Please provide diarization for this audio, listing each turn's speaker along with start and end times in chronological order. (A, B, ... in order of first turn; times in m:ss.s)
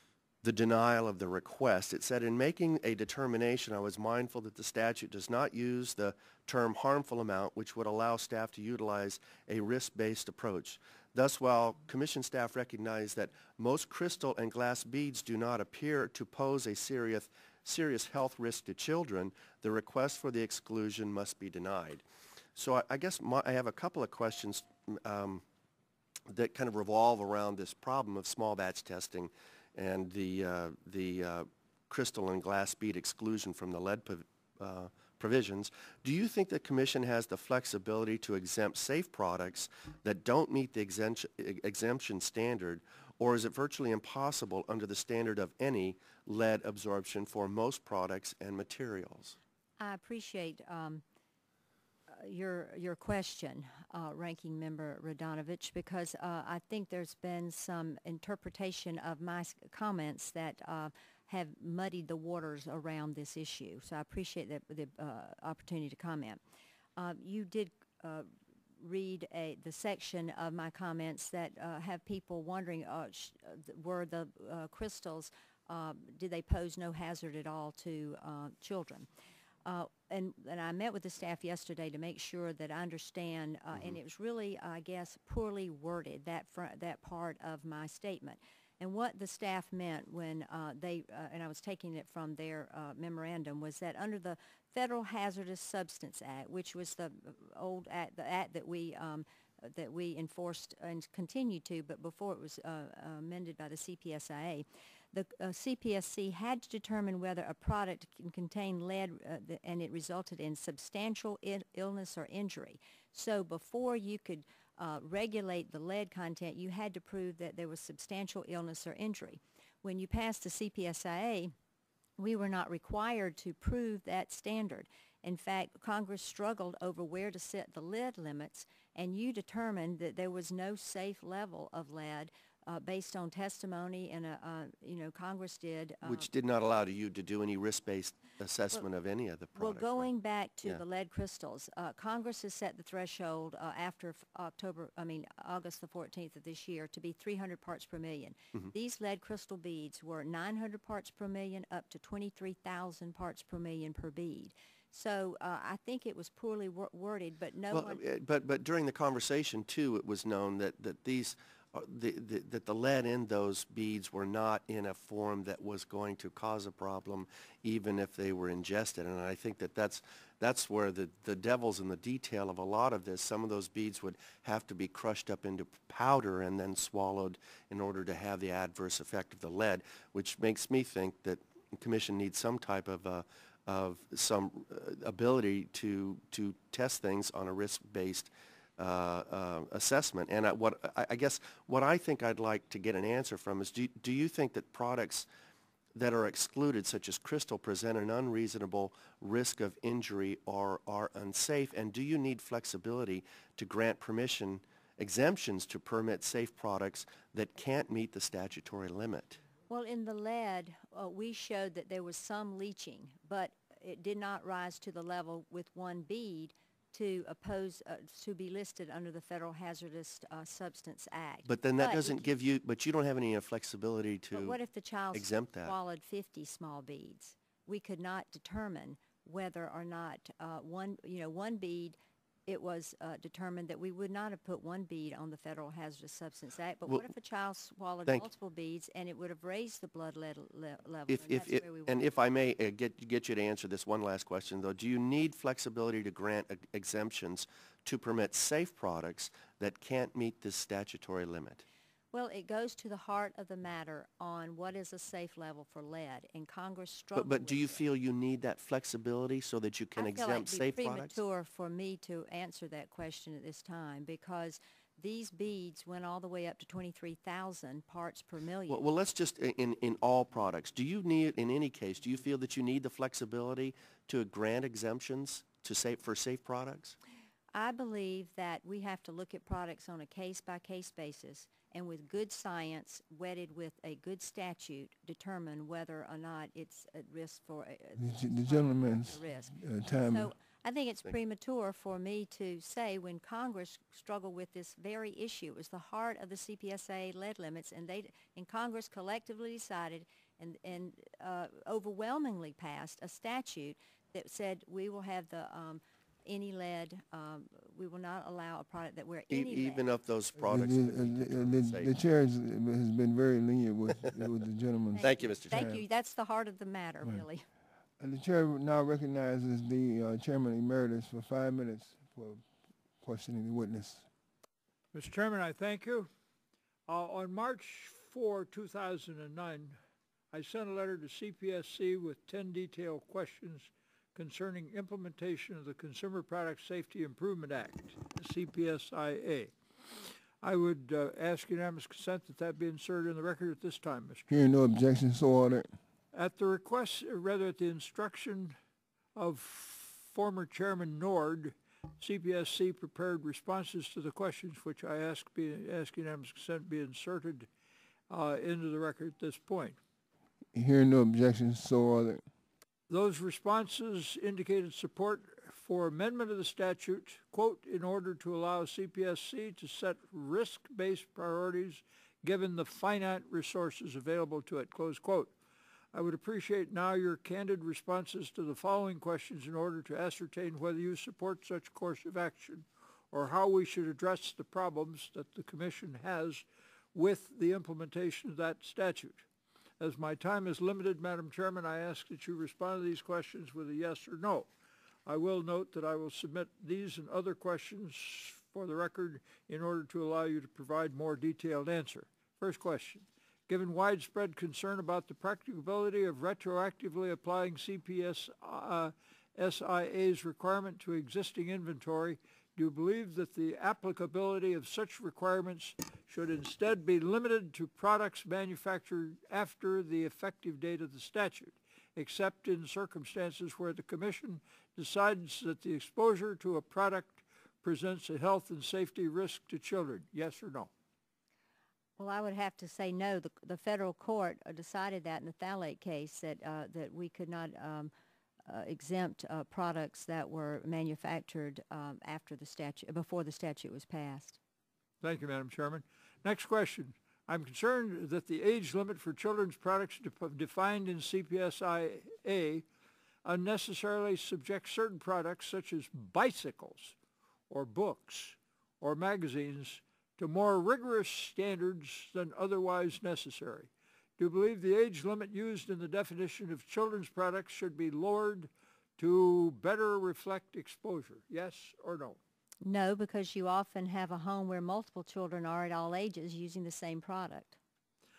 0:00.4-0:22.0 A
0:22.6-0:25.4 A
0:26.3-0:49.4 A
0:49.8-0:51.0 B
0:52.1-1:06.4 B
1:07.0-1:08.3 B
1:08.8-1:19.1 B
1:19.7-2:01.5 B
2:02.2-2:16.3 B
2:16.0-2:20.1 A
2:19.6-2:38.0 B
2:37.7-3:15.3 A
3:16.0-3:29.4 A
3:29.7-3:42.3 B
3:41.5-3:44.6 A
3:44.3-4:02.0 B
3:45.1-3:45.8 A
3:56.9-3:57.1 A
4:01.1-4:11.6 A
4:12.1-4:17.8 B
4:17.2-4:21.2 A
4:20.0-4:28.8 B
4:28.7-4:37.0 A
4:37.5-5:09.8 B
4:48.0-4:50.3 C
5:09.3-5:11.9 A
5:10.4-5:15.8 C
5:15.0-5:17.4 B
5:15.0-5:15.7 A
5:18.0-5:22.4 C
5:23.0-5:24.1 C
5:24.9-5:26.1 D
5:26.9-5:29.8 D
5:30.3-5:39.5 D
5:40.4-5:44.3 D
5:44.3-5:45.8 C
5:46.1-5:48.6 D
5:49.2-5:57.5 D
5:58.1-5:59.8 D
6:00.5-6:02.2 C
6:02.9-6:15.3 D
6:15.9-6:29.3 D
6:29.8-6:34.5 D
6:35.1-7:10.7 D
7:12.0-7:17.9 B
7:18.5-7:24.4 B
7:25.0-7:32.7 D
7:33.2-7:37.0 D
7:37.5-7:52.2 D
7:52.6-7:57.6 B